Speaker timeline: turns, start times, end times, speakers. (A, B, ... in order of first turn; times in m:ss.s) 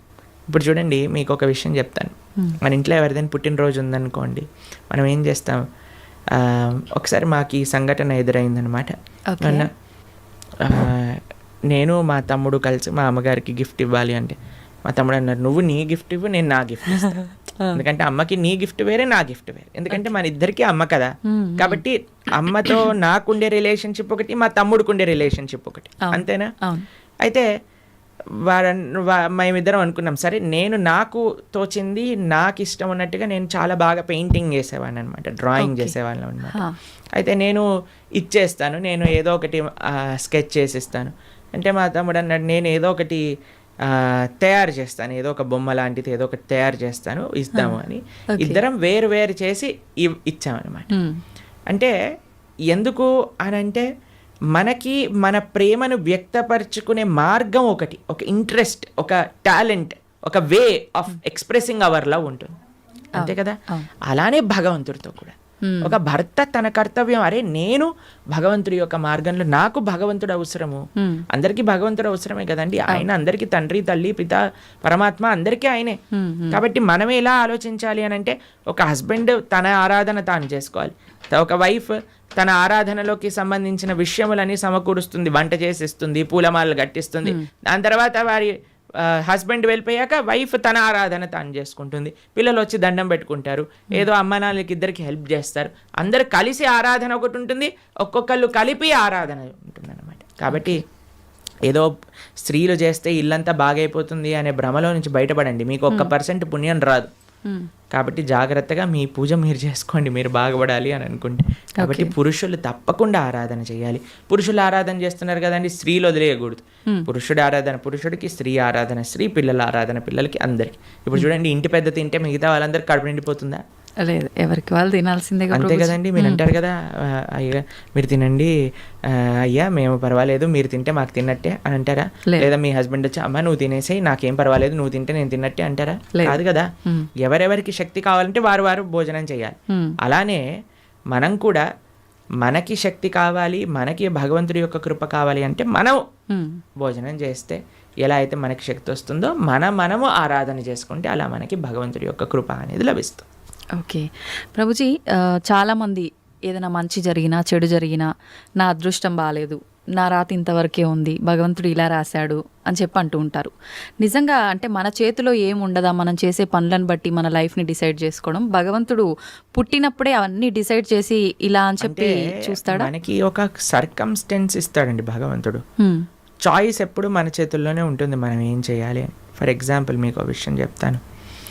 0:00.5-0:05.6 A
0:06.4-0:09.7 A
0:09.3-0:09.7 B
0:10.6-0:11.2 A
0:11.7-0:14.4 A
0:14.9-0:17.2 A
0:17.0-0:17.8 B
0:17.7-0:26.5 A
0:21.2-0:21.8 B
0:22.5-0:22.8 B
0:26.0-0:26.8 B
0:28.4-0:36.6 A
0:35.6-0:35.9 B
0:36.5-0:36.7 B
0:37.2-0:37.6 A
0:38.2-0:43.2 A
0:43.8-0:50.9 A
0:47.5-0:47.8 B
0:48.3-0:48.6 B
0:50.9-0:51.2 B
0:52.7-0:53.8 A
0:54.5-1:02.6 A
1:03.2-1:16.0 A
1:03.2-1:03.9 B
1:05.6-1:05.9 B
1:11.0-1:11.2 B
1:16.1-1:16.6 B
1:16.5-1:40.8 A
1:40.5-1:40.8 B
1:41.7-1:47.1 A
1:47.9-2:03.6 A
1:51.8-1:52.1 B
2:04.0-2:06.4 B
2:05.5-2:08.5 A
2:09.1-2:16.7 A
2:12.2-2:12.5 B
2:16.1-2:17.1 B
2:17.2-2:20.4 A
2:21.1-2:21.6 A
2:22.4-2:26.0 A
2:26.3-2:26.6 B
2:26.8-2:33.2 A
2:33.8-2:38.1 B
2:38.6-2:52.9 B
2:51.8-2:55.6 A
2:55.8-2:56.0 B
2:56.4-3:01.0 A